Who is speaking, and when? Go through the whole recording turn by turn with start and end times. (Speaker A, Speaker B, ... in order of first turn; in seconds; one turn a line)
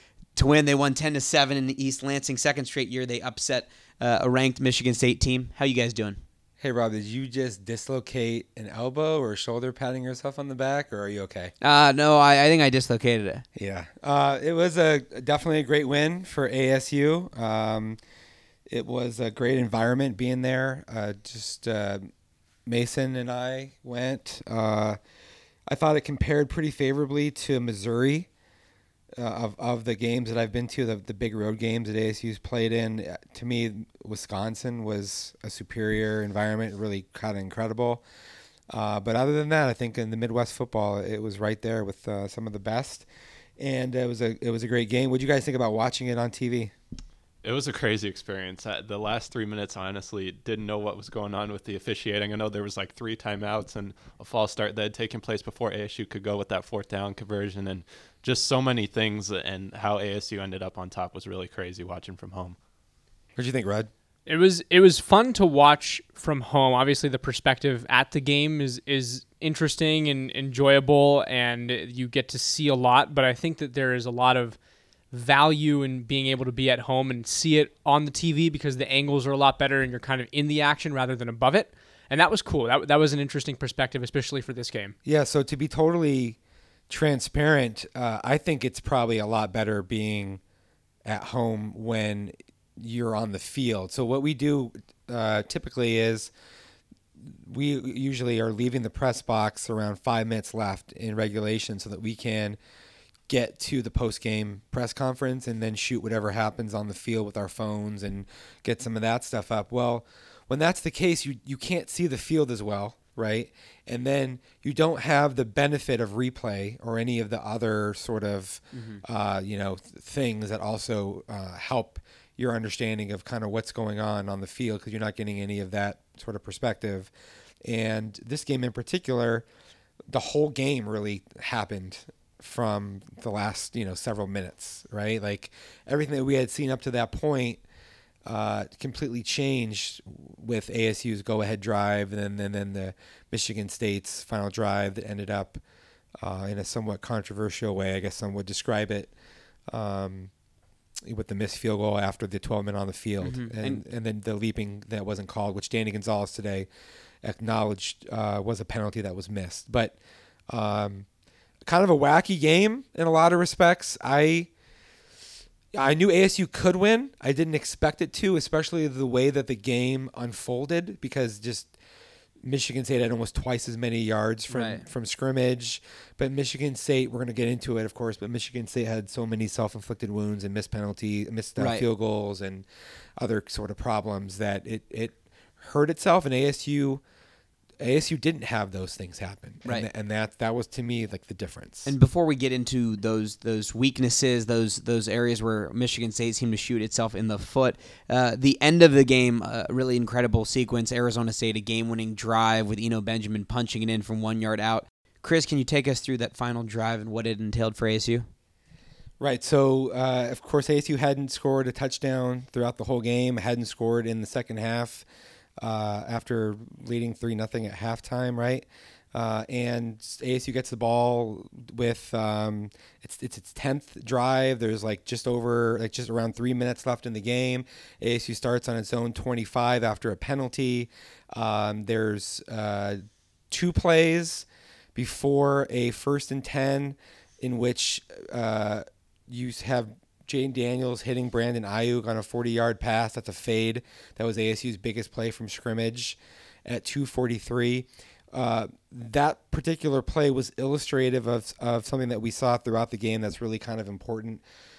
Speaker A: 0.3-6.2
Speaker B: 6.6-11.5
Speaker A: 11.6-13.4
Speaker B: 13.6-18.0
Speaker B: 18.7-22.1
Speaker B: 22.7-25.0
Speaker B: 25.7-28.3
Speaker B: 29.2-38.0
Speaker B: 38.7-43.1
Speaker B: 43.6-46.7
Speaker C: 47.4-62.6
Speaker B: 63.4-63.9
Speaker D: 64.3-74.6
Speaker D: 75.1-85.0
Speaker B: 85.0-86.4
Speaker B: 86.9-90.4
Speaker B: 91.1-96.3
Speaker B: 97.2-102.6
Speaker B: 103.3-127.1
Speaker A: 118.7-119.0
Speaker B: 127.7-129.5
Speaker B: 130.1-137.6
Speaker B: 138.2-145.6
Speaker B: 146.2-149.1
Speaker B: 149.7-150.3
Speaker B: 151.1-156.7
Speaker A: 153.2-153.8
Speaker B: 157.2-160.0
Speaker B: 160.5-161.1
Speaker B: 161.7-164.5
Speaker B: 165.7-171.7
Speaker B: 172.4-182.7
Speaker A: 174.5-174.8
Speaker A: 181.6-181.9
Speaker B: 183.2-187.0
Speaker B: 187.8-191.9
Speaker A: 191.9-208.3
Speaker B: 209.2-215.1
Speaker B: 215.6-254.4